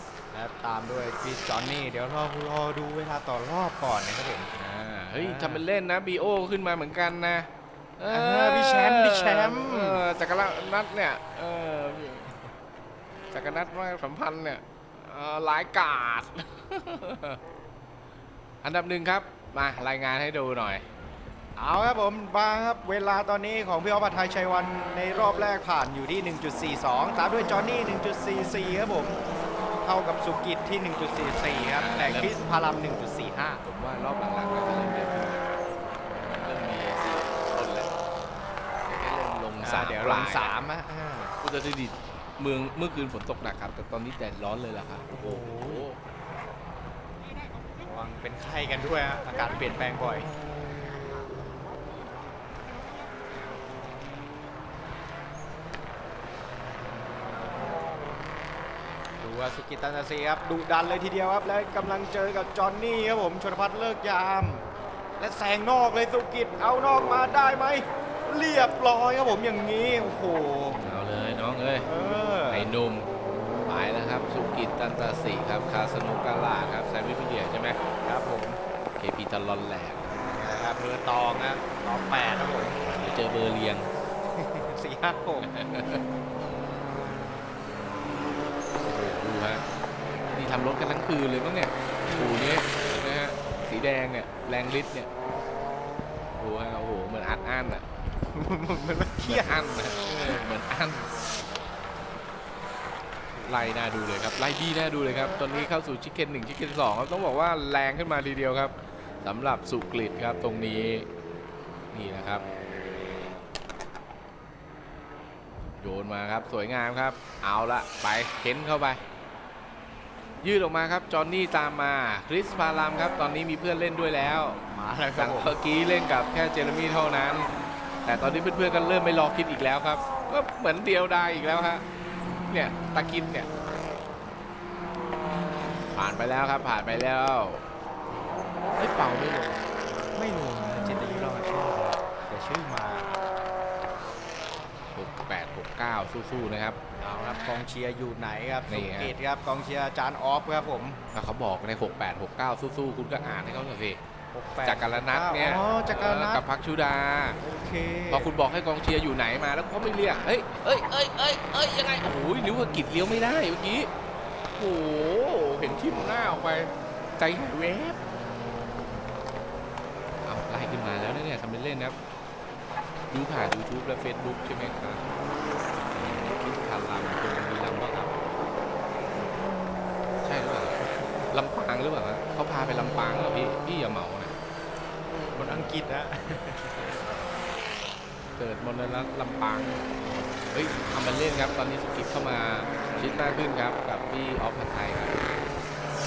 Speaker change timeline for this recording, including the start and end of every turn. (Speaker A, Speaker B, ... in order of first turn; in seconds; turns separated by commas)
Speaker A: 0.3-4.5, Speaker B: 4.5-12.3, Speaker A: 5.2-5.6, Speaker A: 8.1-10.0, Speaker B: 13.3-17.4, Speaker B: 18.6-20.8, Speaker A: 21.6-29.2, Speaker A: 29.8-33.6, Speaker B: 31.8-32.3, Speaker B: 33.6-35.4, Speaker B: 36.1-37.9, Speaker B: 38.9-40.5, Speaker A: 39.6-41.3, Speaker B: 41.4-46.0, Speaker A: 45.2-45.9, Speaker A: 47.8-50.3, Speaker A: 59.2-64.7, Speaker A: 65.2-70.8, Speaker B: 70.8-71.9, Speaker A: 71.8-72.7, Speaker B: 72.5-73.1, Speaker B: 73.7-77.8, Speaker A: 78.0-78.6, Speaker B: 79.0-80.1, Speaker A: 80.2-82.8, Speaker B: 82.8-83.9, Speaker A: 84.3-85.5, Speaker B: 85.4-86.0, Speaker B: 88.8-89.6, Speaker B: 90.3-95.1, Speaker B: 96.4-97.8, Speaker A: 98.3-100.5, Speaker B: 99.2-101.1, Speaker B: 103.4-111.1, Speaker B: 111.9-112.4, Speaker B: 115.8-119.0, Speaker B: 120.4-124.6, Speaker A: 124.7-125.5, Speaker B: 125.2-127.5, Speaker B: 128.0-131.8, Speaker B: 132.4-133.5, Speaker B: 135.9-137.6, Speaker B: 138.8-139.6, Speaker A: 140.1-143.1, Speaker B: 144.9-146.8, Speaker A: 147.0-151.0, Speaker B: 148.7-149.1, Speaker B: 151.1-154.0, Speaker A: 154.3-156.4, Speaker B: 154.6-157.4, Speaker A: 157.4-158.3, Speaker B: 158.1-163.9, Speaker B: 164.5-168.0, Speaker B: 170.2-171.9, Speaker B: 173.1-175.0, Speaker B: 175.9-178.2, Speaker B: 180.2-180.8, Speaker B: 181.3-184.3, Speaker A: 185.3-187.0, Speaker B: 188.4-189.8, Speaker B: 190.5-195.2